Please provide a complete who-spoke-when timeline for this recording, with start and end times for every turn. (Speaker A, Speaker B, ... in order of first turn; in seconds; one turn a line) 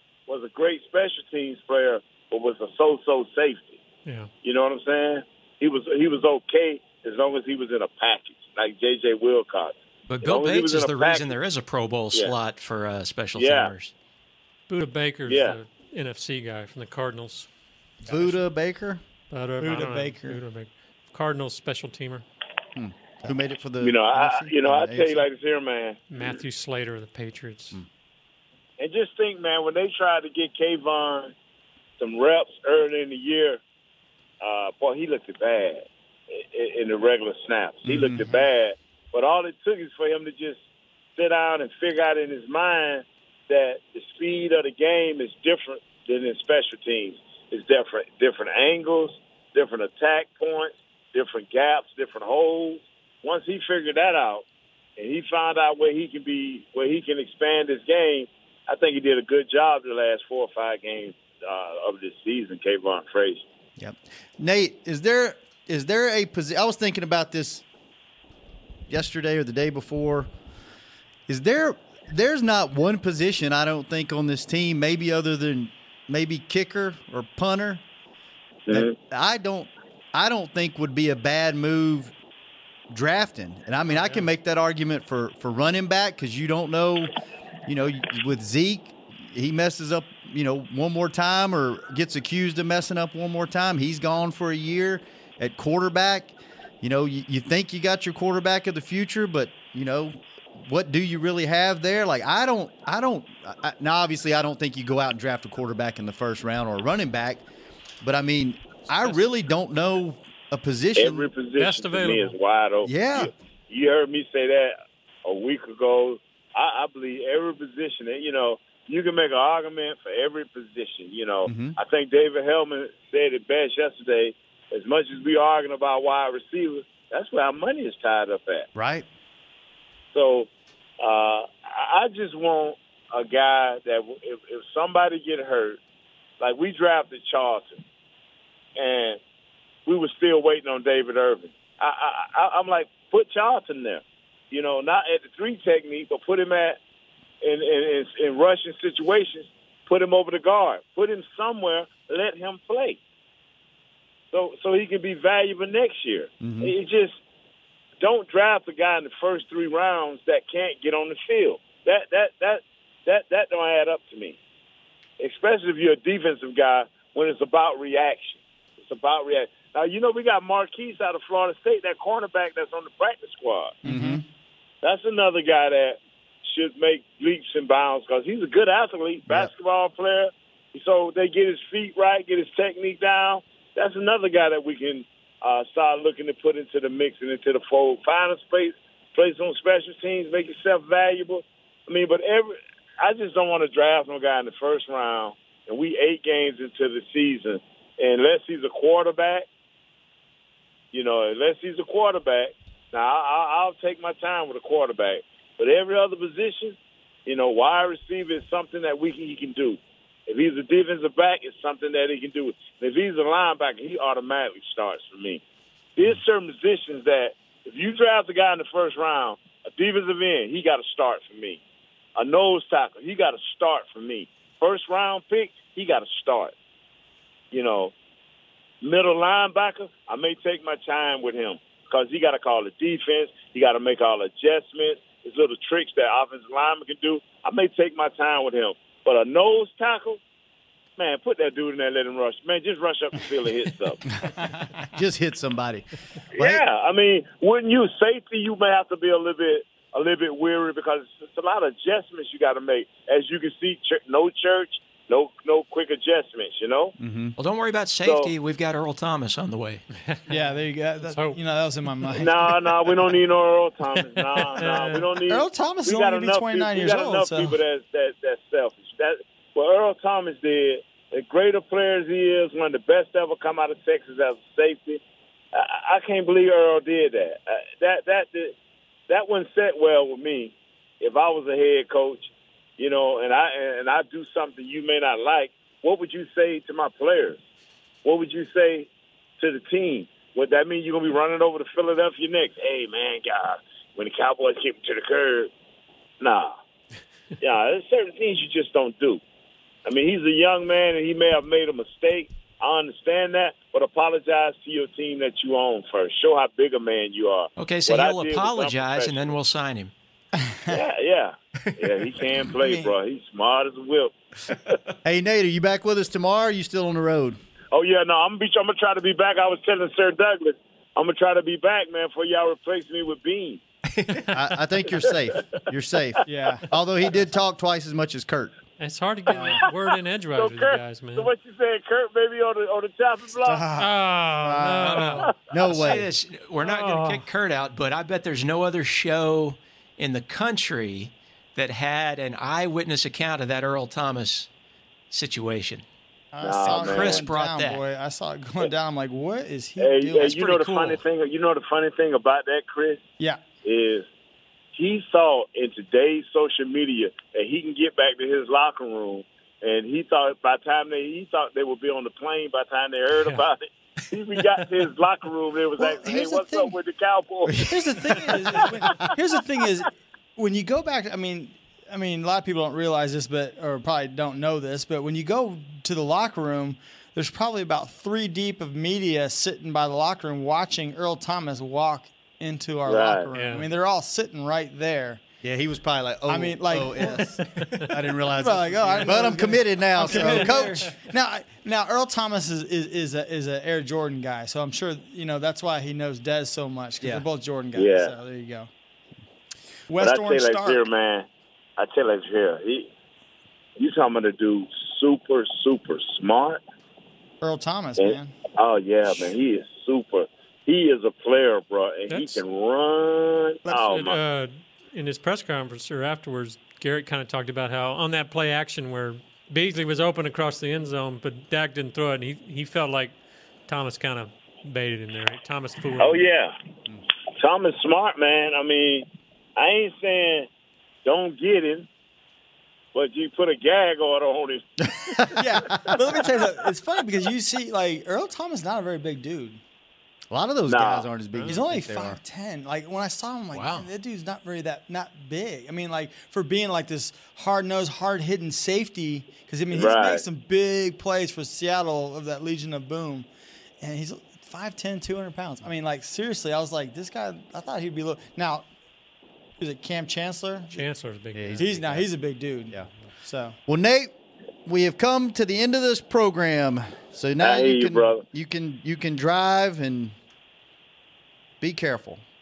Speaker A: 0.3-3.8
Speaker B: 4.0-4.3
Speaker A: 4.4-11.4
Speaker C: 10.1-13.9
Speaker A: 13.3-13.7
Speaker B: 14.7-17.5
Speaker A: 15.3-15.6
Speaker D: 18.1-19.0
Speaker B: 19.3-22.2
Speaker E: 19.6-20.4
Speaker D: 22.8-25.3
Speaker A: 23.8-26.4
Speaker B: 26.1-27.8
Speaker A: 28.8-31.3
Speaker A: 32.0-33.6
Speaker A: 34.4-40.6
Speaker D: 37.9-38.4
Speaker A: 41.2-54.4
Speaker A: 55.0-63.4
Speaker D: 63.8-67.6
Speaker D: 68.9-70.3
Speaker D: 71.3-77.8
Speaker A: 78.7-79.0
Speaker D: 78.7-82.1
Speaker D: 82.9-87.1
Speaker B: 83.9-84.3
Speaker D: 87.7-107.5
Speaker D: 108.0-111.3
Speaker A: 111.0-128.7
Speaker B: 111.6-112.3
Speaker D: 112.8-113.3
Speaker D: 121.5-121.8
Speaker D: 128.8-129.1
Speaker A: 130.1-130.5
Speaker A: 131.0-135.8
Speaker A: 136.4-137.8
Speaker A: 138.8-139.2
Speaker A: 139.9-146.8
Speaker A: 147.4-153.0
Speaker A: 154.3-157.1
Speaker D: 156.4-156.7
Speaker A: 158.0-164.4
Speaker A: 165.2-173.8
Speaker E: 173.8-174.2
Speaker D: 173.8-174.2
Speaker A: 174.8-199.5
Speaker A: 200.9-215.4
Speaker A: 216.0-221.6
Speaker A: 222.2-226.5
Speaker A: 227.5-227.9
Speaker A: 228.8-240.2
Speaker A: 241.0-244.0
Speaker E: 244.4-244.7
Speaker D: 244.8-246.6
Speaker A: 246.3-256.9
Speaker D: 257.0-257.4
Speaker C: 257.4-259.8
Speaker A: 258.0-258.3
Speaker E: 260.3-262.4
Speaker B: 261.1-261.4
Speaker A: 262.1-275.0
Speaker B: 264.6-265.1
Speaker E: 265.3-267.6
Speaker A: 275.5-278.6
Speaker A: 279.1-287.4
Speaker A: 288.1-288.9
Speaker A: 289.4-295.5
Speaker A: 296.2-296.5
Speaker A: 297.4-299.2
Speaker A: 299.9-309.4
Speaker C: 307.6-309.9
Speaker E: 310.4-310.8
Speaker A: 310.7-314.8
Speaker E: 312.6-312.9
Speaker D: 315.0-317.4
Speaker A: 317.7-323.6
Speaker C: 324.0-324.3
Speaker D: 324.3-328.5
Speaker A: 324.9-325.4
Speaker E: 326.3-326.6
Speaker B: 328.8-331.3
Speaker E: 329.3-329.6
Speaker A: 330.4-333.7
Speaker E: 333.4-335.2
Speaker B: 333.8-335.3
Speaker C: 334.8-344.5
Speaker D: 335.5-336.1
Speaker B: 336.6-337.3
Speaker C: 345.1-345.9
Speaker E: 346.3-350.9
Speaker A: 346.4-347.3
Speaker C: 346.7-347.8
Speaker A: 349.8-353.0
Speaker C: 350.2-350.9
Speaker A: 353.6-354.1
Speaker A: 354.7-367.7
Speaker B: 363.1-363.4
Speaker E: 365.8-366.8
Speaker D: 367.5-367.8
Speaker E: 367.6-385.2
Speaker A: 382.9-383.3
Speaker B: 383.3-383.7
Speaker D: 385.4-390.9
Speaker E: 386.3-387.5
Speaker E: 388.4-398.7
Speaker B: 390.1-390.9
Speaker A: 397.8-398.1
Speaker E: 399.9-400.8
Speaker A: 400.0-401.3
Speaker A: 401.8-402.9
Speaker A: 403.8-406.6
Speaker E: 407.4-408.3
Speaker A: 408.0-414.2
Speaker B: 412.1-412.4
Speaker B: 413.7-426.2
Speaker A: 426.0-426.5
Speaker A: 427.4-430.5
Speaker A: 431.1-431.9
Speaker A: 432.9-435.3
Speaker D: 434.9-436.0
Speaker E: 435.3-439.6
Speaker D: 440.3-442.2
Speaker A: 440.7-441.1
Speaker E: 441.5-453.3
Speaker C: 443.5-443.9
Speaker A: 449.7-450.2
Speaker E: 453.8-458.7
Speaker E: 459.6-460.9
Speaker B: 460.7-461.7
Speaker D: 461.3-462.1
Speaker E: 461.6-463.6
Speaker D: 463.7-464.1
Speaker D: 464.7-470.2
Speaker A: 467.4-468.2
Speaker D: 471.6-472.2